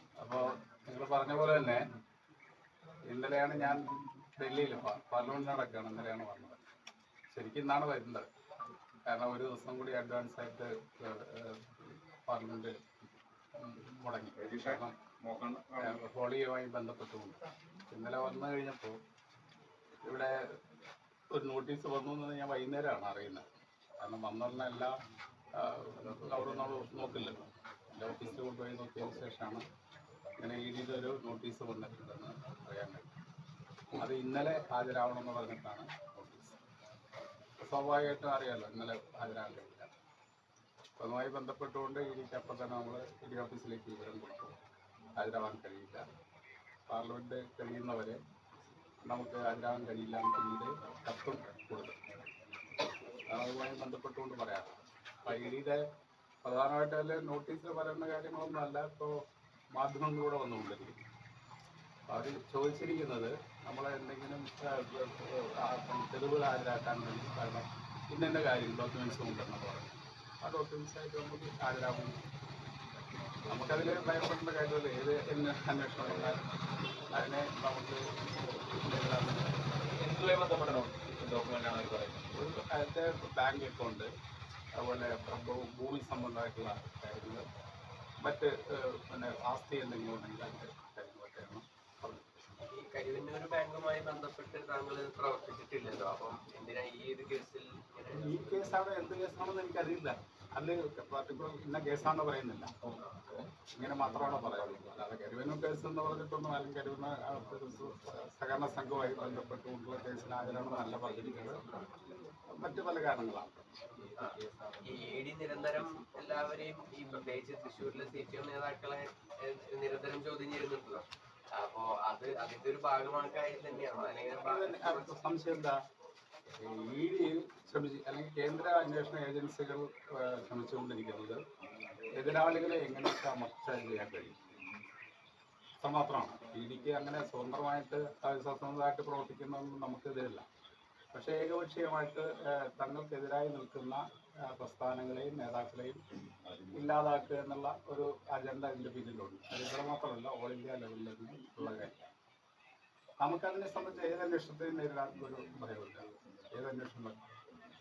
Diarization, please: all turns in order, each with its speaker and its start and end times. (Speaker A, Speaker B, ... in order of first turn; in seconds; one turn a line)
Speaker A: 0.2-1.8
Speaker A: 3.1-6.6
Speaker A: 7.3-8.3
Speaker A: 9.1-12.7
Speaker A: 13.6-14.9
Speaker B: 14.4-16.0
Speaker A: 15.8-19.0
Speaker A: 20.0-20.4
Speaker A: 21.3-23.4
Speaker A: 24.0-25.0
Speaker A: 25.6-29.6
Speaker A: 30.4-33.1
Speaker A: 33.9-36.6
Speaker A: 37.6-39.9
Speaker A: 41.0-44.6
Speaker A: 45.2-46.0
Speaker A: 46.9-48.2
Speaker A: 49.0-52.0
Speaker A: 53.3-55.8
Speaker A: 56.4-59.1
Speaker A: 59.7-61.0
Speaker A: 62.1-72.2
Speaker B: 73.5-74.1
Speaker A: 73.5-76.4
Speaker A: 77.1-79.7
Speaker B: 79.9-82.2
Speaker A: 82.3-84.1
Speaker A: 84.8-87.4
Speaker A: 88.2-92.2
Speaker C: 92.7-98.8
Speaker A: 98.1-102.9
Speaker B: 103.1-103.4
Speaker A: 103.7-111.6
Speaker B: 111.7-112.0
Speaker A: 112.5-114.0
Speaker C: 114.2-125.1
Speaker A: 124.4-125.8
Speaker A: 126.6-131.4
Speaker A: 132.1-134.4
Speaker A: 135.8-140.5
Speaker A: 141.1-146.0
Speaker A: 146.7-152.1
Speaker A: 153.2-157.2